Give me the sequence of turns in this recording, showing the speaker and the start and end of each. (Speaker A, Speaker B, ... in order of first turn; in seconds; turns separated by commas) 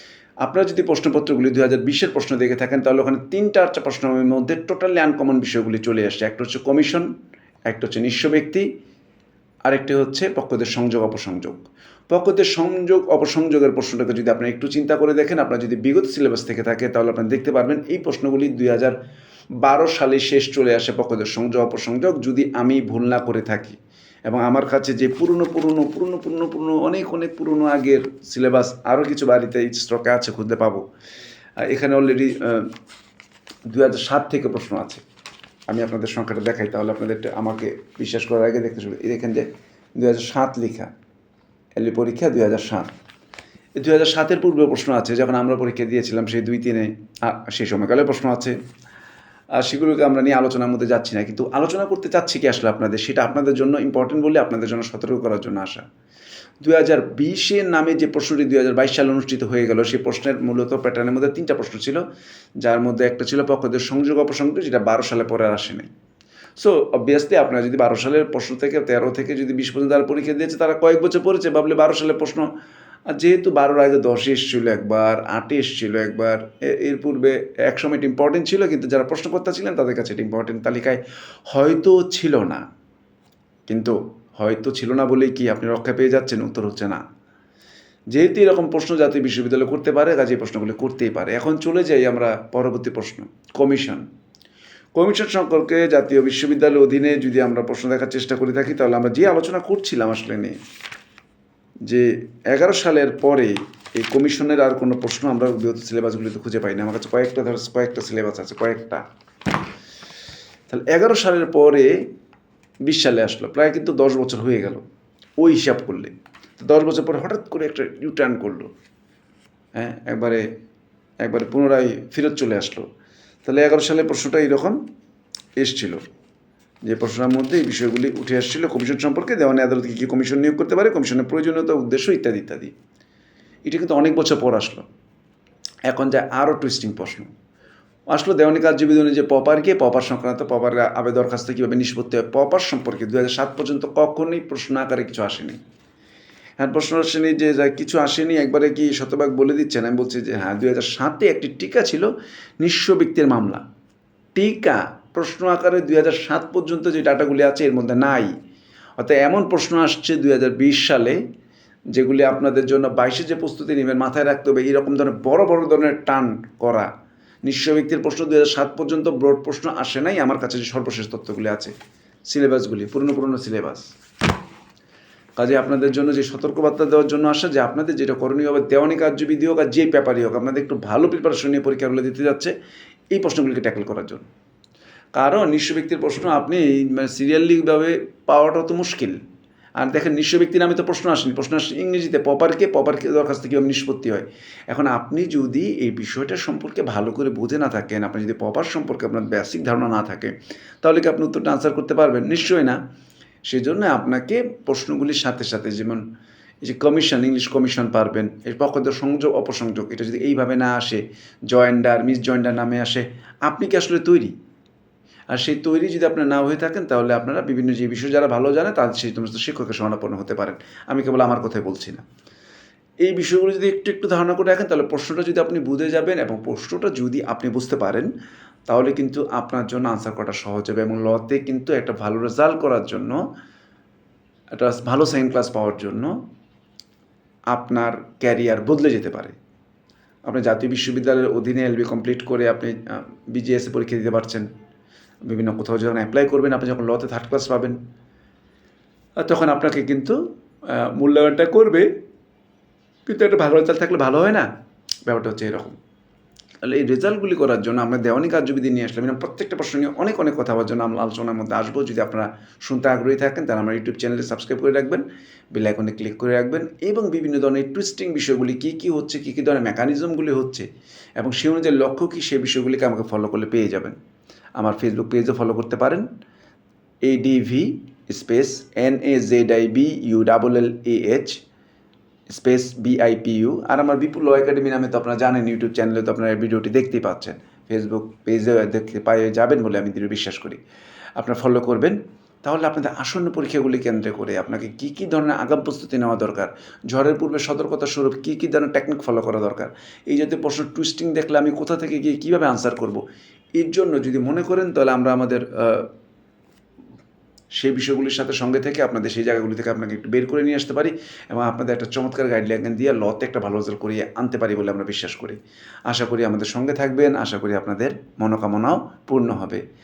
Speaker A: 0.4-7.1, Speaker A: 7.7-8.7, Speaker A: 9.7-18.9, Speaker A: 19.6-30.8, Speaker A: 31.6-32.7, Speaker A: 33.7-35.0, Speaker A: 35.7-40.9, Speaker A: 41.8-42.9, Speaker A: 43.8-48.6, Speaker A: 49.5-55.8, Speaker A: 56.6-62.0, Speaker A: 62.6-65.9, Speaker A: 66.6-72.5, Speaker A: 73.1-81.0, Speaker A: 81.5-82.6, Speaker A: 83.7-87.0, Speaker A: 88.1-94.0, Speaker A: 95.0-100.6, Speaker A: 101.8-109.0, Speaker A: 110.7-112.0, Speaker A: 112.8-114.8, Speaker A: 115.4-118.7, Speaker A: 119.7-120.5, Speaker A: 121.2-122.8, Speaker A: 123.4-124.8, Speaker A: 125.6-126.0, Speaker A: 126.8-132.7, Speaker A: 133.7-134.8, Speaker A: 135.9-137.3, Speaker A: 138.1-145.6, Speaker A: 146.6-152.1, Speaker A: 152.6-153.6, Speaker A: 154.3-158.3, Speaker A: 159.0-161.2, Speaker A: 161.9-166.9, Speaker A: 167.4-171.7, Speaker A: 172.3-173.9, Speaker A: 175.4-182.5, Speaker A: 183.1-184.2, Speaker A: 185.2-189.2, Speaker A: 189.8-202.8, Speaker A: 203.5-206.0, Speaker A: 206.6-214.3, Speaker A: 215.3-222.0, Speaker A: 223.0-228.1, Speaker A: 228.7-233.2, Speaker A: 234.5-236.1, Speaker A: 237.5-239.3, Speaker A: 240.3-242.8, Speaker A: 243.3-244.5, Speaker A: 245.2-247.8, Speaker A: 249.2-250.2, Speaker A: 250.7-251.9, Speaker A: 253.1-254.4, Speaker A: 255.1-255.8, Speaker A: 256.6-270.6, Speaker A: 271.2-274.0, Speaker A: 274.6-276.0, Speaker A: 277.1-281.4, Speaker A: 282.3-290.6, Speaker A: 291.2-303.0, Speaker A: 303.6-305.9, Speaker A: 307.6-319.6